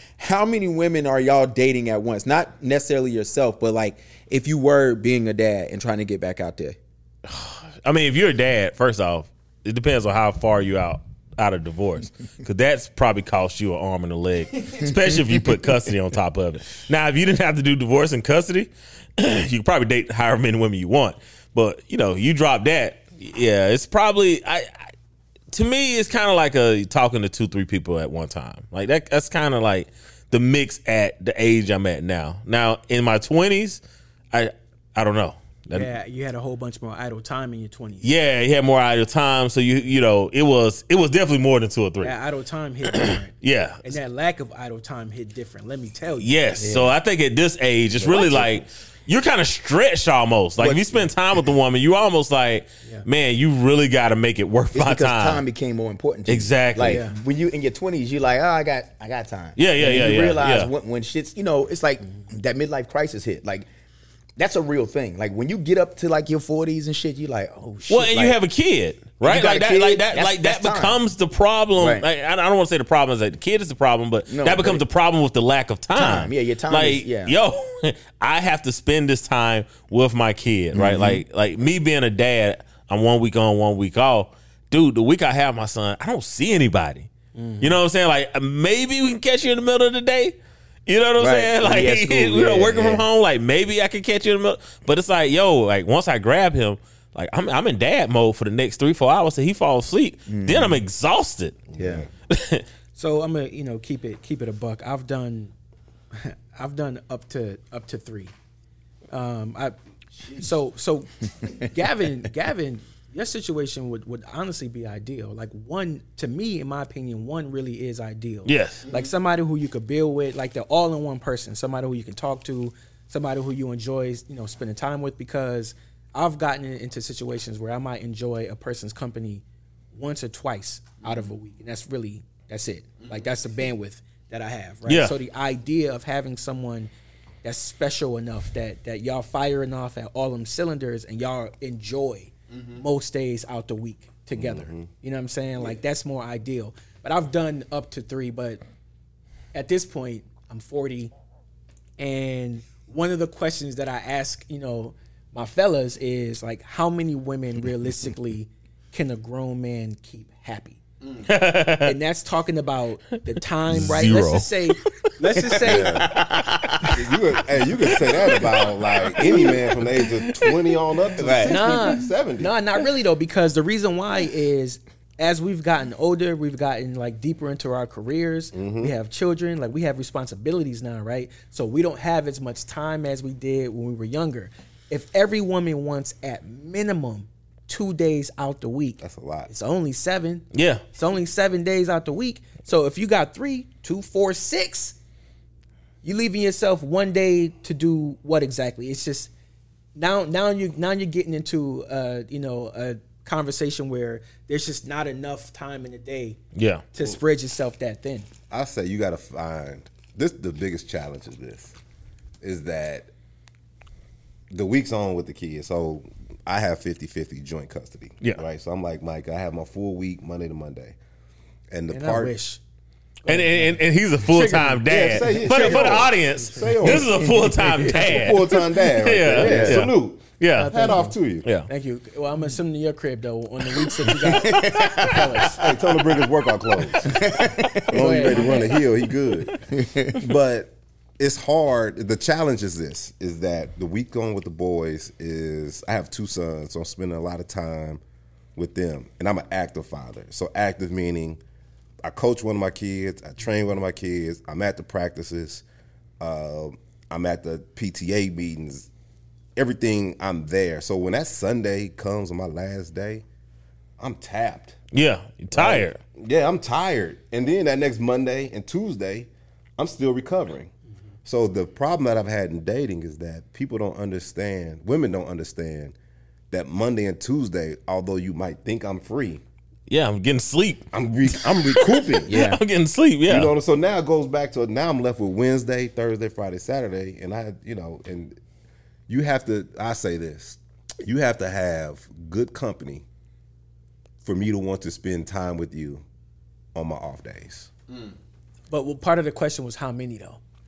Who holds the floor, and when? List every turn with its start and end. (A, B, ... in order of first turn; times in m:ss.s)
0:00.2-0:06.8 A
0:07.2-0:24.9 B
0:25.5-0:35.9 B
0:35.7-0:38.1 C
0:38.0-0:42.2 B
0:42.0-0:46.7 C
0:42.9-0:43.9 B
0:46.2-0:55.4 B
0:46.6-0:46.9 D
0:48.0-0:48.6 D
0:50.6-0:51.1 D
0:54.7-1:03.7 D
0:56.3-0:57.0 B
0:56.9-0:57.2 C
0:59.6-1:00.7 B
1:04.4-1:08.4 D
1:07.9-1:41.7 B
1:09.2-1:11.0 D
1:11.8-1:12.0 D
1:14.3-1:14.8 D
1:16.0-1:17.4 D
1:20.7-1:21.2 D
1:27.4-1:27.7 C
1:31.2-1:33.0 D
1:40.3-1:40.8 D
1:41.7-1:42.1 E
1:41.8-1:42.1 D
1:42.3-1:42.6 B
1:43.0-1:45.5 C
1:46.1-1:48.3 C
1:49.1-1:49.8 C
1:50.3-2:16.9 C
1:58.5-1:58.9 B
2:14.9-2:15.2 B
2:17.4-2:28.6 C
2:24.4-2:24.9 E
2:29.5-2:31.1 C
2:32.0-2:40.8 C
2:41.2-2:42.0 B
2:41.8-2:46.1 C
2:43.7-2:44.9 B
2:45.4-2:46.9 D
2:45.6-2:46.1 E
2:46.9-2:52.6 E
2:48.0-2:50.6 B
2:51.2-2:51.6 D
2:51.4-3:15.0 C
2:58.5-2:58.9 E
3:09.0-3:09.5 E
3:10.5-3:10.8 B
3:16.0-3:19.3 C
3:20.0-3:26.4 C
3:26.6-3:26.9 B
3:26.9-3:28.3 C
3:28.5-3:31.7 E
3:32.4-3:33.1 E
3:34.5-3:41.0 E
3:41.7-3:42.4 E
3:41.9-3:42.6 C
3:43.3-3:47.0 C
3:43.3-3:50.7 B
3:44.9-3:51.5 E
3:47.6-3:47.9 D
3:49.4-3:49.9 D
3:50.6-3:51.2 C
3:51.7-3:55.8 C
3:54.1-3:55.6 D
3:55.5-4:08.0 E
3:57.0-3:58.3 D
3:57.9-3:58.8 C
3:59.7-4:00.2 D
4:08.6-4:11.4 E
4:12.0-4:15.6 E
4:16.2-4:18.9 E
4:19.6-4:23.2 E
4:24.0-4:24.8 E
4:24.9-4:26.0 B
4:25.5-4:30.7 E
4:31.2-4:36.0 E
4:36.5-4:39.4 E
4:39.9-4:43.5 B
4:40.9-4:42.3 E
4:42.3-4:42.6 D
4:43.3-4:48.4 E
4:49.1-4:53.0 E
4:54.2-4:56.0 E
4:56.8-4:57.7 E
4:58.7-5:00.4 C